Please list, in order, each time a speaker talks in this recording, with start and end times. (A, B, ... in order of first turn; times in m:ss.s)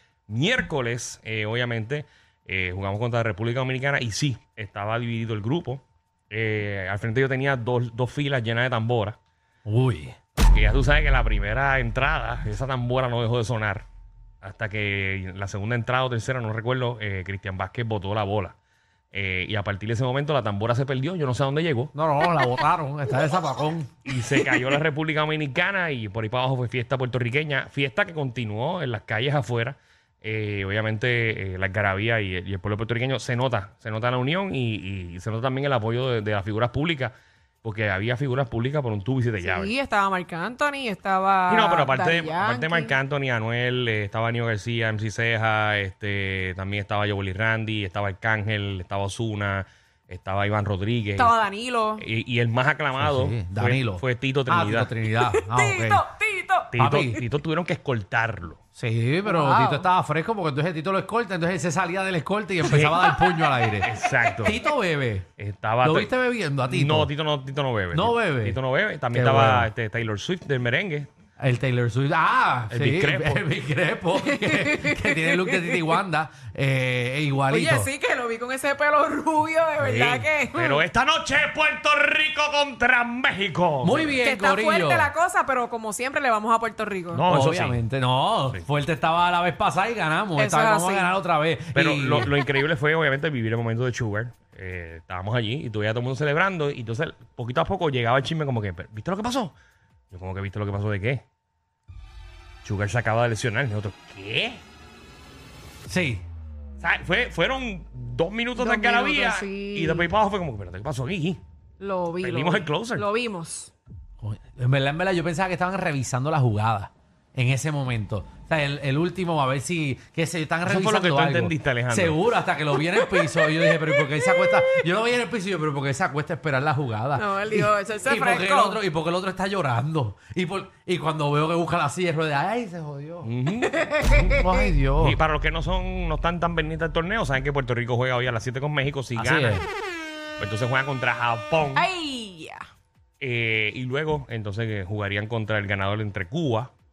0:00.3-0:09.2 A
0:09.6-0:10.2 B
0:10.4-0:13.8 A
0:14.4-0:18.6 A
0:19.1-0:21.9 A
0:21.9-0:23.9 B
0:24.0-0:39.7 A
0:39.4-0:42.9 C
0:41.5-0:51.4 A
0:51.2-0:52.0 C
0:52.0-0:54.9 A
0:53.0-0:56.0 B
0:55.3-0:57.2 C
0:56.7-0:58.6 A
0:56.8-0:57.2 B
0:58.8-1:03.9 B
0:59.2-0:59.9 C
1:02.6-1:03.0 A
1:02.8-1:03.4 C
1:03.8-1:04.6 A
1:04.4-1:05.3 B
1:05.4-1:06.1 A
1:05.8-1:07.1 B
1:06.6-1:11.1 A
1:07.9-1:08.6 B
1:09.1-1:09.7 B
1:11.4-1:17.9 B
1:12.7-1:13.5 A
1:14.2-1:15.8 C
1:17.5-1:20.8 C
1:19.8-1:24.2 A
1:23.8-1:25.1 B
1:24.2-1:27.2 C
1:27.1-1:27.8 A
1:27.2-1:32.3 B
1:30.4-1:31.1 C
1:31.7-1:39.5 A
1:40.1-1:41.2 A
1:42.6-1:44.6 A
1:45.9-1:46.2 B
1:46.8-1:51.4 A
1:48.6-1:50.1 C
1:51.8-1:53.7 C
1:52.2-1:53.0 A
1:54.2-2:13.3 B
2:00.6-2:02.2 A
2:02.8-2:04.5 C
2:07.2-2:08.8 C
2:13.2-2:14.4 A
2:13.7-2:14.7 C
2:14.4-2:15.2 B
2:15.0-2:19.6 A
2:19.1-2:19.6 B
2:20.4-2:21.9 A
2:21.7-2:22.6 C
2:23.2-2:26.7 A